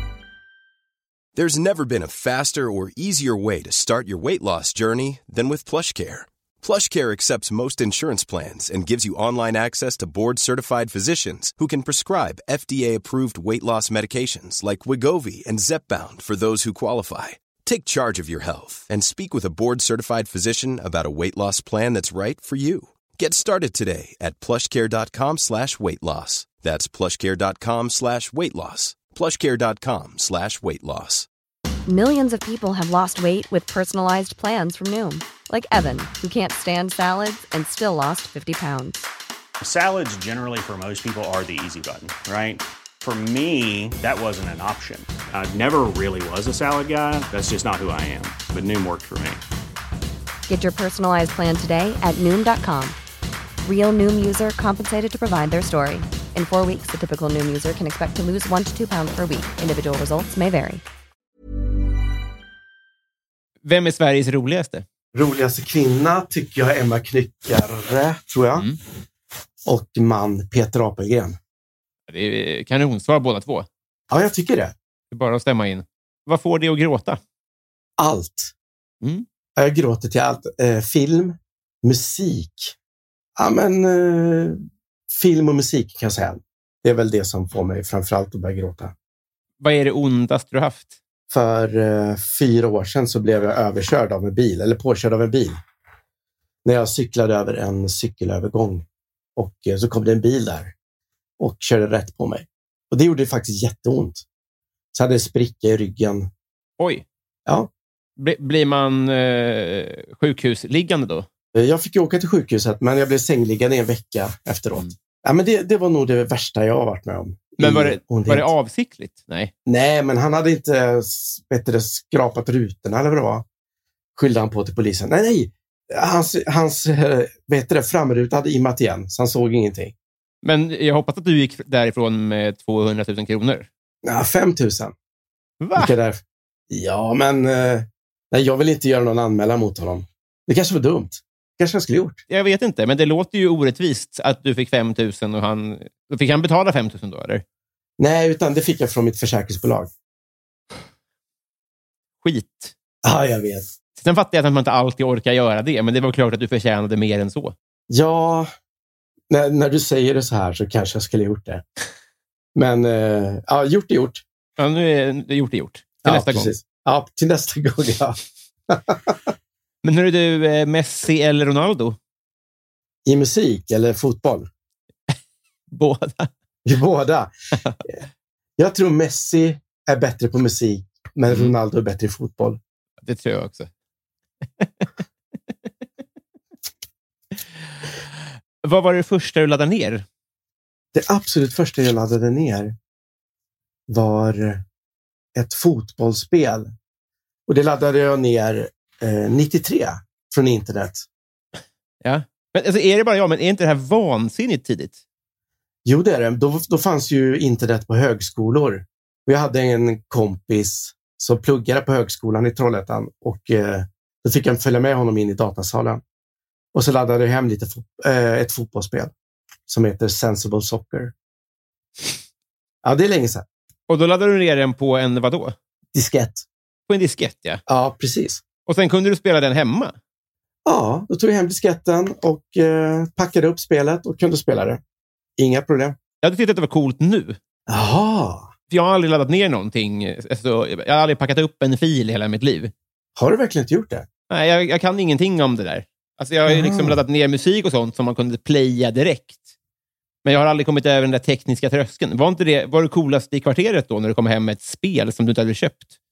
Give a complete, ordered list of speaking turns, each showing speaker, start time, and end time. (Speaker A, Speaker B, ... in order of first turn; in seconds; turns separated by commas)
Speaker A: 1.3-31.3, Speaker B: 31.9-39.1, Speaker C: 39.6-49.4, Speaker B: 50.5-53.0, Speaker B: 53.6-60.8, Speaker D: 63.6-64.8, Speaker E: 65.1-68.7, Speaker E: 69.7-71.4, Speaker D: 72.1-73.7, Speaker E: 74.1-74.7, Speaker D: 75.1-77.2, Speaker E: 78.0-78.5, Speaker E: 79.6-82.7, Speaker E: 83.4-88.9, Speaker D: 89.6-90.9, Speaker E: 91.3-95.6, Speaker E: 96.6-98.8, Speaker E: 99.3-100.7, Speaker E: 101.4-104.2, Speaker E: 104.9-106.3, Speaker D: 106.8-107.0, Speaker D: 108.2-111.3, Speaker E: 111.5-118.5, Speaker D: 117.6-119.5, Speaker E: 119.7-123.4, Speaker E: 124.2-129.9, Speaker D: 130.4-133.7, Speaker E: 134.0-134.9, Speaker D: 135.6-135.9, Speaker E: 135.8-142.2, Speaker D: 142.3-147.4, Speaker E: 148.0-149.9, Speaker D: 152.2-152.7, Speaker E: 153.0-153.7, Speaker D: 154.0-157.5, Speaker E: 157.9-158.5, Speaker E: 159.3-161.6, Speaker E: 162.5-164.2, Speaker D: 164.6-166.5, Speaker E: 166.0-168.2, Speaker E: 168.7-169.2, Speaker D: 169.8-172.0, Speaker E: 173.1-174.5, Speaker D: 175.7-176.3, Speaker E: 176.6-177.3, Speaker E: 178.6-182.6, Speaker D: 183.0-183.7, Speaker D: 184.6-184.8, Speaker D: 188.6-190.1, Speaker E: 190.9-192.7, Speaker E: 193.9-194.6, Speaker E: 195.3-196.7, Speaker E: 197.5-201.1, Speaker D: 202.0-205.0, Speaker E: 205.8-216.0, Speaker E: 216.7-219.1, Speaker E: 219.7-221.1, Speaker E: 222.8-223.4, Speaker D: 223.9-225.5, Speaker E: 225.9-226.4, Speaker D: 226.9-227.6, Speaker E: 227.7-228.4, Speaker D: 228.7-229.9, Speaker E: 230.7-234.8, Speaker E: 235.4-236.0, Speaker D: 236.2-237.4, Speaker E: 237.7-238.5, Speaker D: 238.7-242.7, Speaker E: 243.2-244.1, Speaker D: 244.3-249.4, Speaker E: 246.5-247.0, Speaker D: 250.2-255.9